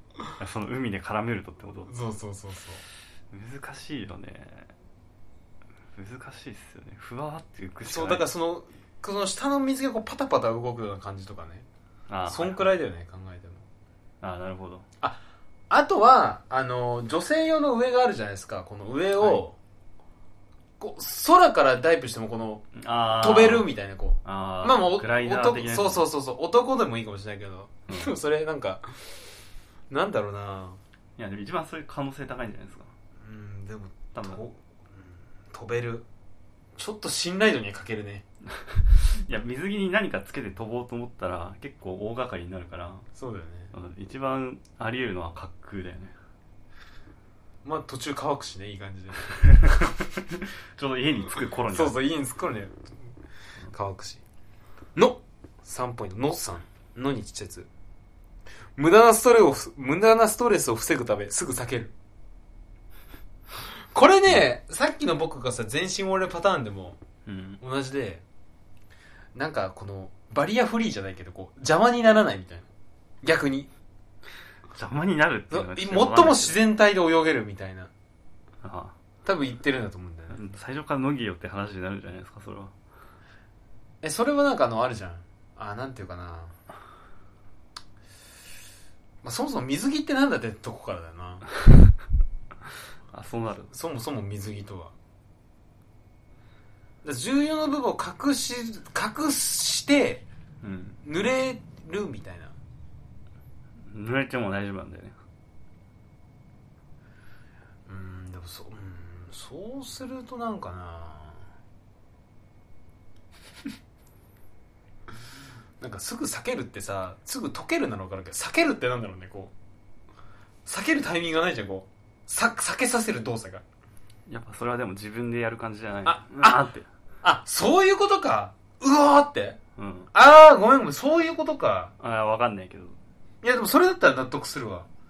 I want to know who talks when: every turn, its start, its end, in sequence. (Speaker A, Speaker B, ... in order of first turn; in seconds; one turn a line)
Speaker A: 0.4-1.9
Speaker B: 1.9-2.8
Speaker A: 3.3-4.7
Speaker A: 5.9-8.3
Speaker B: 7.8-11.7
Speaker A: 12.1-12.7
Speaker B: 12.3-13.7
Speaker A: 14.2-14.8
Speaker B: 15.7-19.6
Speaker B: 20.8-29.0
Speaker A: 22.8-23.7
Speaker A: 24.2-26.1
Speaker A: 27.9-28.1
Speaker B: 29.9-30.8
Speaker A: 31.2-32.9
Speaker B: 33.2-36.1
Speaker A: 34.1-34.4
Speaker B: 36.8-38.2
Speaker A: 38.6-43.1
Speaker B: 43.2-43.7
Speaker A: 43.7-46.1
Speaker B: 47.6-49.4
Speaker A: 49.5-52.0
Speaker B: 51.7-53.0
Speaker B: 53.7-54.2
Speaker B: 55.0-57.7
Speaker B: 58.8-61.9
Speaker B: 63.9-67.0
Speaker A: 67.3-67.6
Speaker B: 67.6-68.2
Speaker B: 69.3-72.7
Speaker B: 73.2-73.7
Speaker A: 74.7-76.6
Speaker B: 75.5-77.9
Speaker A: 78.6-79.0
Speaker B: 79.2-80.4
Speaker A: 80.3-82.7
Speaker B: 84.0-86.5
Speaker B: 89.2-91.5
Speaker A: 93.1-93.7
Speaker B: 93.7-94.9
Speaker B: 97.0-100.2
Speaker A: 100.6-101.0
Speaker B: 101.0-102.5
Speaker A: 103.9-105.2
Speaker B: 107.9-111.4
Speaker B: 115.8-119.5
Speaker B: 120.7-123.6
Speaker A: 124.3-126.9
Speaker B: 126.0-126.6
Speaker B: 127.2-129.6
Speaker A: 129.8-130.1
Speaker B: 130.1-131.9
Speaker A: 132.0-133.0
Speaker B: 133.4-134.9